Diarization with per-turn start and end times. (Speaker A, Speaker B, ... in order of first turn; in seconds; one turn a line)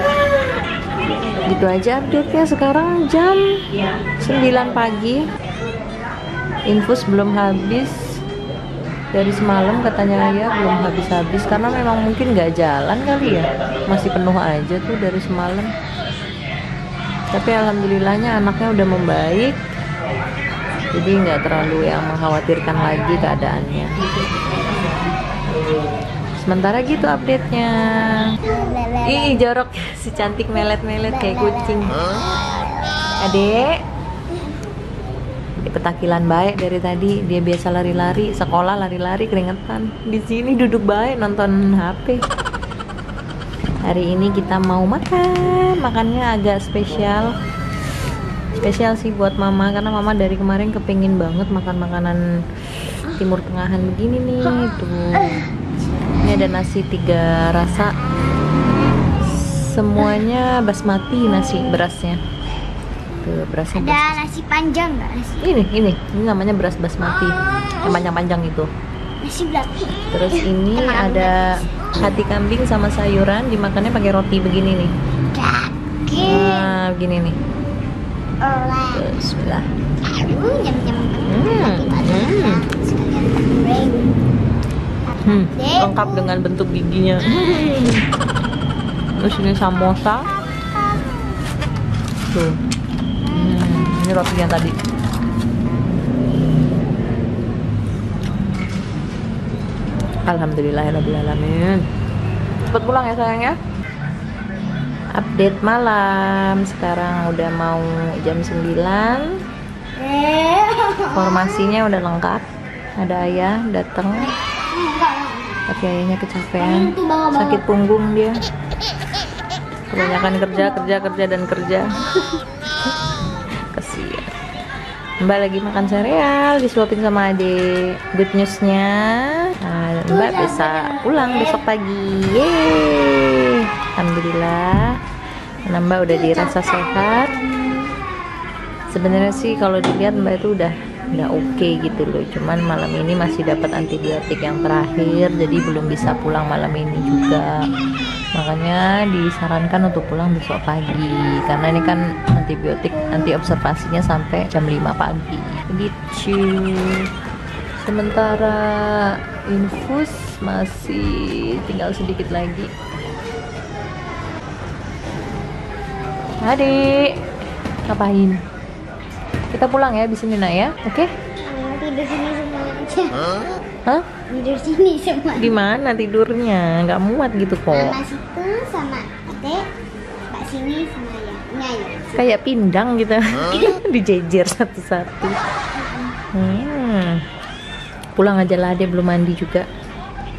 Speaker A: 1.5-3.4
Speaker A: 4.2-5.2
Speaker A: 6.7-8.0
Speaker A: 9.1-15.7
Speaker A: 17.3-19.6
Speaker A: 20.9-23.9
Speaker A: 26.4-28.4
Speaker B: 28.4-29.4
Speaker A: 29.1-32.0
Speaker B: 31.0-32.9
Speaker A: 33.2-33.7
Speaker B: 34.3-34.6
Speaker A: 35.6-42.2
Speaker A: 43.8-47.3
Speaker A: 48.6-52.2
Speaker A: 53.1-55.4
Speaker A: 56.2-57.9
Speaker A: 59.2-62.2
Speaker A: 63.2-64.2
Speaker B: 63.7-65.4
Speaker A: 65.4-68.7
Speaker B: 69.2-71.5
Speaker A: 70.1-74.9
Speaker B: 75.3-76.7
Speaker A: 76.2-77.3
Speaker B: 78.4-79.0
Speaker A: 78.9-79.7
Speaker B: 80.1-84.1
Speaker A: 81.2-82.6
Speaker A: 85.2-88.0
Speaker B: 85.5-85.9
Speaker A: 89.2-90.2
Speaker A: 92.3-92.6
Speaker A: 93.3-94.7
Speaker A: 100.2-101.8
Speaker A: 102.6-103.6
Speaker A: 105.1-109.2
Speaker B: 110.0-111.7
Speaker A: 111.1-112.4
Speaker A: 113.0-114.3
Speaker B: 114.4-115.6
Speaker A: 115.7-118.4
Speaker B: 116.6-117.6
Speaker A: 119.9-122.0
Speaker A: 123.7-124.3
Speaker A: 125.2-134.8
Speaker B: 130.1-131.5
Speaker A: 135.6-137.3
Speaker B: 136.6-137.8
Speaker A: 138.9-147.5
Speaker A: 148.3-157.1
Speaker A: 157.8-162.7
Speaker A: 166.4-167.1
Speaker A: 167.9-168.4
Speaker A: 169.5-171.1
Speaker B: 171.4-173.6
Speaker B: 174.3-175.5
Speaker A: 175.4-178.0
Speaker B: 177.7-179.6
Speaker B: 180.3-182.3
Speaker A: 182.2-185.3
Speaker B: 185.8-186.1
Speaker A: 186.3-187.2
Speaker A: 188.2-189.7